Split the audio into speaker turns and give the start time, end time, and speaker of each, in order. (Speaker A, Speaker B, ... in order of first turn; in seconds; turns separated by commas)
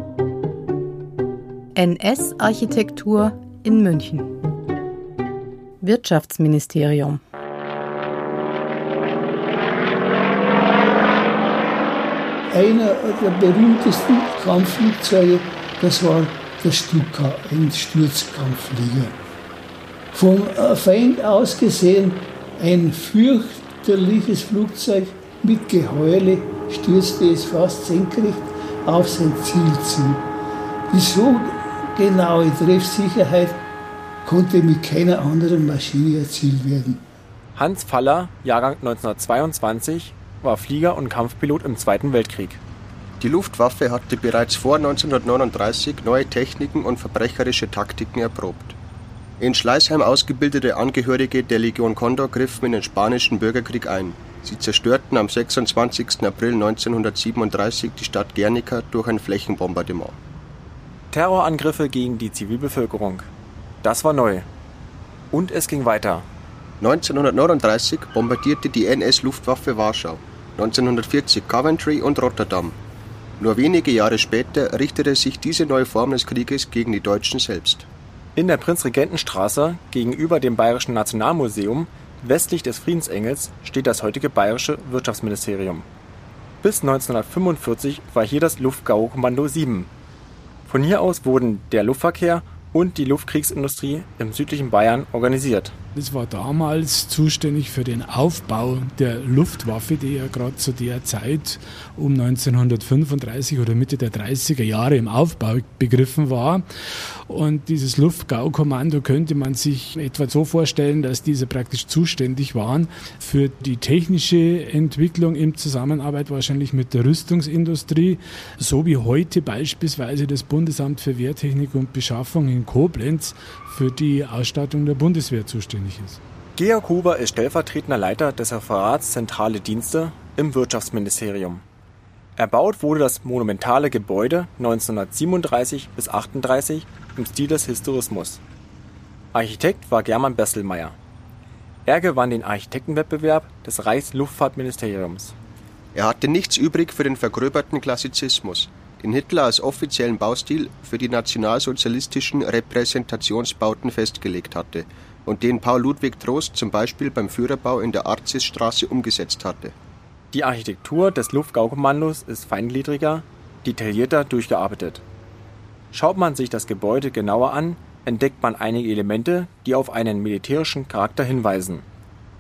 Speaker A: 1.8-4.3, Speaker A: 5.8-7.2, Speaker B: 12.5-19.1, Speaker B: 20.1-30.2, Speaker B: 30.9-33.6, Speaker B: 34.2-37.0, Speaker C: 37.5-42.6, Speaker D: 43.2-48.8, Speaker D: 49.4-60.2, Speaker C: 61.1-63.3, Speaker C: 63.8-64.5, Speaker C: 65.3-66.3, Speaker D: 66.8-72.8, Speaker D: 73.4-77.9, Speaker C: 78.4-85.9, Speaker C: 86.6-89.9, Speaker C: 90.7-95.8, Speaker E: 96.0-106.7, Speaker E: 107.3-126.2, Speaker C: 126.6-131.6, Speaker C: 132.4-138.4, Speaker C: 139.3-141.0, Speaker C: 141.9-145.4, Speaker D: 145.9-159.8, Speaker C: 160.3-165.0, Speaker C: 165.9-171.8